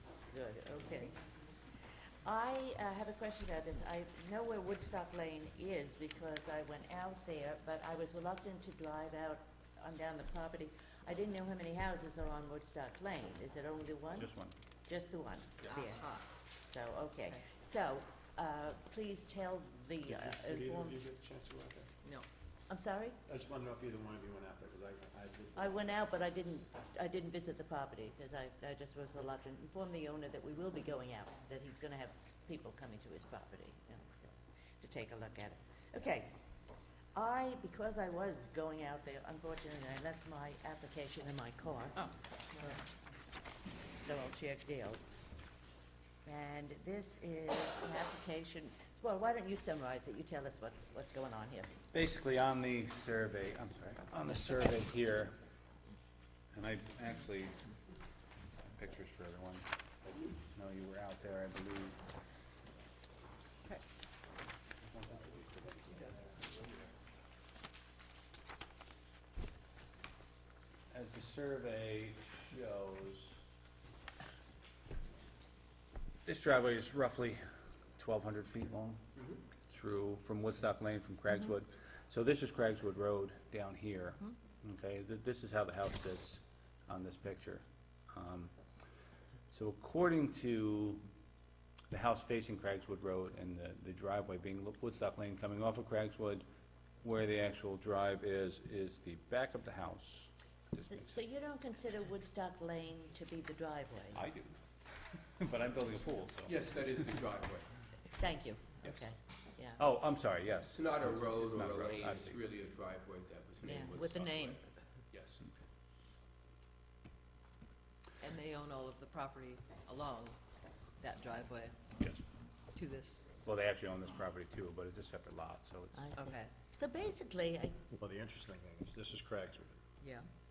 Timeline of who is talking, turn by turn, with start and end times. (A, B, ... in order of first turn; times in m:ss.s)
0:00.3-0:01.2 A
0:02.2-0:14.3 A
0:14.2-0:14.5 B
0:14.8-0:21.0 A
0:15.6-0:16.3 C
0:20.1-0:21.9 D
0:22.7-0:23.2 A
0:23.3-0:26.0 D
0:25.6-0:36.4 A
0:37.2-0:42.2 A
0:44.0-0:45.2 A
0:46.2-0:51.7 A
0:51.9-0:55.4 B
0:56.5-0:57.6 B
0:58.6-0:59.7 B
1:00.6-1:02.0 B
1:04.8-1:05.5 B
1:05.4-1:06.3 D
1:10.9-1:13.4 B
1:16.2-1:17.4 B
1:18.0-1:19.0 B
1:19.7-1:28.5 B
1:29.5-1:31.0 B
1:31.9-1:36.4 B
1:37.0-1:41.1 B
1:40.7-1:44.2 A
1:44.2-1:47.1 B
1:46.5-1:47.8 E
1:48.1-1:49.8 A
1:49.8-1:52.4 B
1:50.7-1:55.4 E
1:53.6-1:54.6 A
1:58.2-2:00.4 C
2:01.0-2:01.8 C
2:02.0-2:02.2 B
2:02.8-2:03.3 C
2:03.4-2:06.1 B
2:05.9-2:07.8 A
2:06.2-2:06.5 C
2:08.0-2:09.8 D
2:10.0-2:10.3 C